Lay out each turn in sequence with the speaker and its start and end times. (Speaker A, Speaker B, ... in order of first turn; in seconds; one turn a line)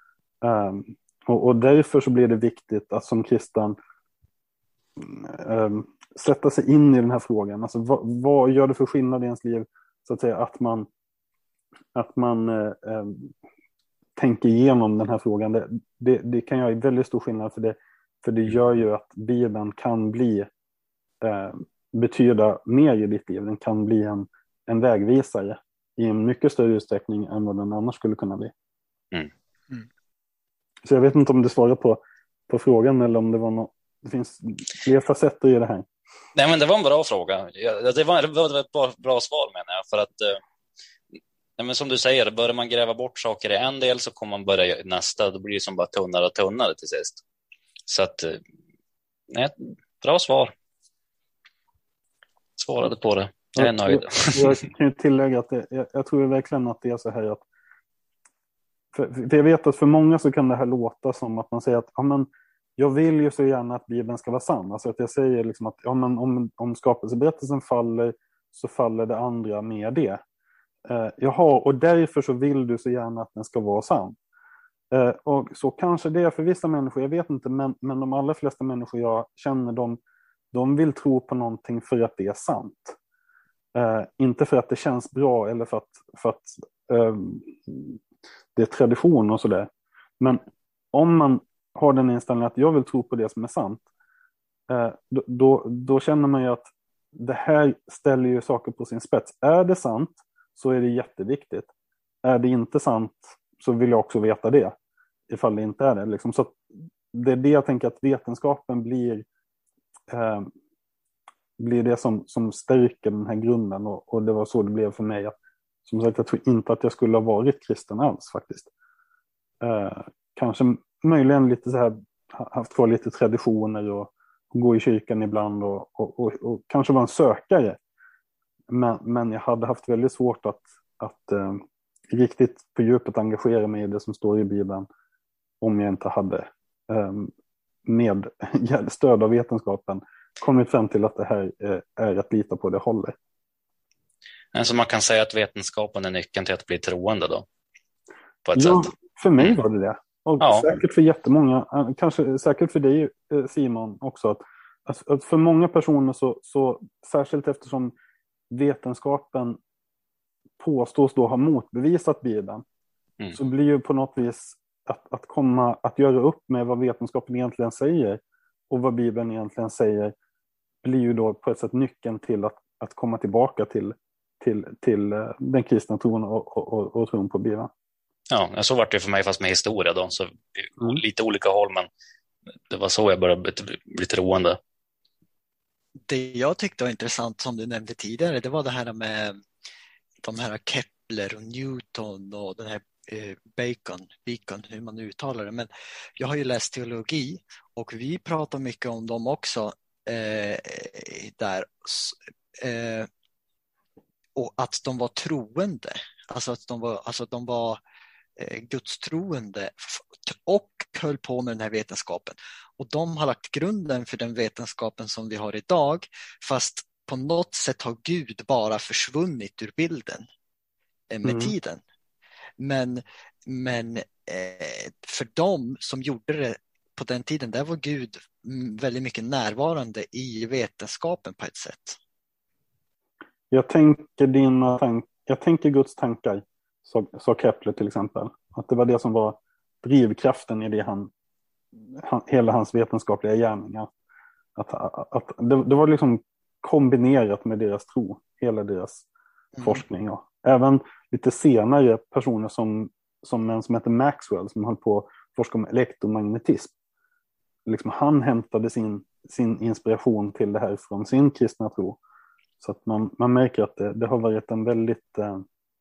Speaker A: 0.4-3.8
Speaker A: 5.0-10.9
Speaker A: 11.9-13.3
Speaker A: 14.2-20.5
Speaker A: 21.2-28.5
Speaker A: 30.9-35.9
Speaker B: 36.4-40.4
Speaker B: 41.6-47.2
Speaker B: 47.9-48.4
Speaker B: 49.3-50.5
Speaker B: 52.6-54.6
Speaker A: 53.6-57.4
Speaker A: 58.9-70.2
Speaker A: 70.9-74.2
Speaker A: 74.9-80.0
Speaker A: 80.5-83.0
Speaker A: 83.8-88.0
Speaker A: 88.5-90.4
Speaker A: 90.9-93.8
Speaker A: 94.7-101.7
Speaker A: 102.2-104.7
Speaker A: 105.3-106.6
Speaker A: 107.1-109.2
Speaker A: 110.1-110.5
Speaker A: 111.6-115.3
Speaker A: 115.9-118.7
Speaker A: 119.6-127.8
Speaker A: 128.7-134.9
Speaker A: 135.6-137.3
Speaker A: 137.8-143.2
Speaker B: 144.5-147.5
Speaker B: 148.4-149.6
Speaker A: 148.6-157.9
Speaker B: 150.4-150.7
Speaker A: 158.5-159.6
Speaker A: 160.6-162.6
Speaker A: 163.3-170.1
Speaker A: 170.8-177.7
Speaker B: 178.3-181.9
Speaker B: 182.7-184.6
Speaker C: 186.1-189.4
Speaker C: 190.2-203.1
Speaker C: 204.4-207.8
Speaker C: 208.4-220.3
Speaker C: 221.1-221.8
Speaker A: 221.2-221.5
Speaker C: 222.6-232.0
Speaker A: 233.5-241.1
Speaker A: 241.9-243.9
Speaker A: 244.6-249.1
Speaker C: 249.6-249.8
Speaker A: 249.6-256.7
Speaker A: 257.7-262.0
Speaker A: 262.6-265.4